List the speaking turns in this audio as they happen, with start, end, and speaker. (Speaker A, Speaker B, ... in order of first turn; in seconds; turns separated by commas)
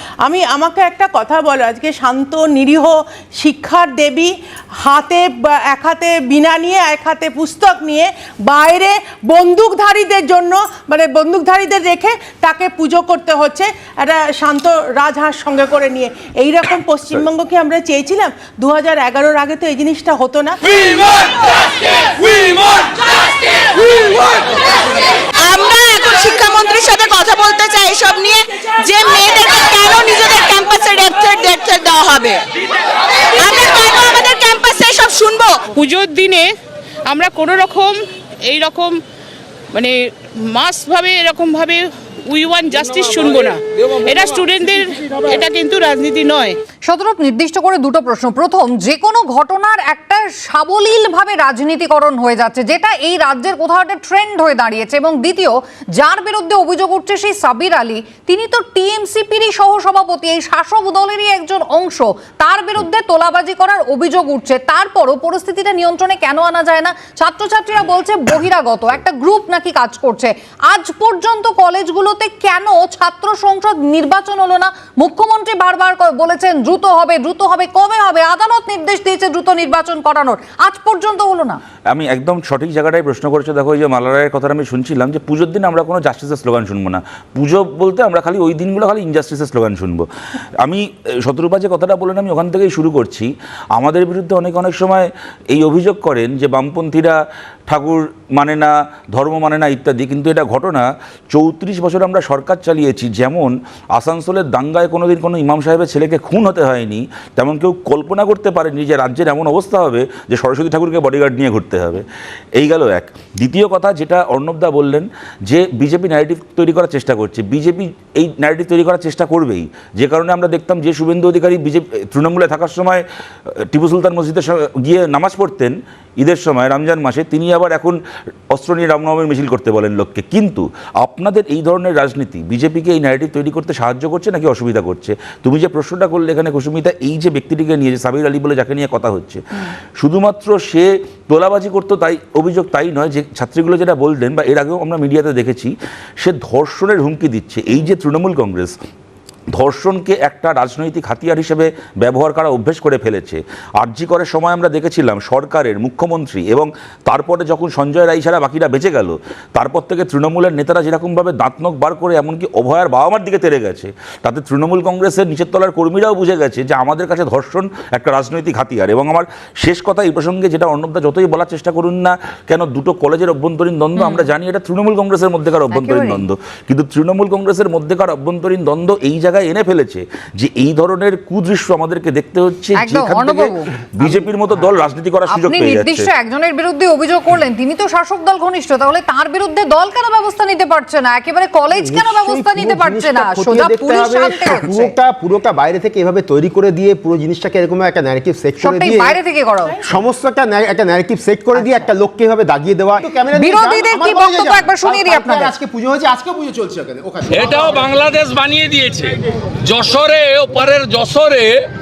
Speaker A: 0.2-21.4, Speaker A: 22.2-22.8, Speaker B: 25.4-32.4, Speaker B: 33.4-35.6, Speaker C: 35.7-36.5, Speaker C: 37.1-39.0, Speaker C: 39.7-46.6, Speaker D: 46.9-81.6, Speaker E: 81.9-90.1, Speaker E: 90.6-97.2, Speaker E: 97.7-112.0, Speaker E: 112.6-123.0, Speaker E: 123.7-128.0, Speaker E: 128.5-139.4, Speaker E: 140.0-148.7, Speaker E: 149.5-186.1, Speaker D: 174.0-174.2, Speaker D: 175.7-176.2, Speaker D: 182.8-183.7, Speaker D: 185.3-194.9, Speaker F: 191.8-199.2, Speaker D: 198.6-199.8, Speaker F: 199.8-207.9, Speaker D: 201.6-201.8, Speaker D: 203.3-205.5, Speaker G: 207.3-211.6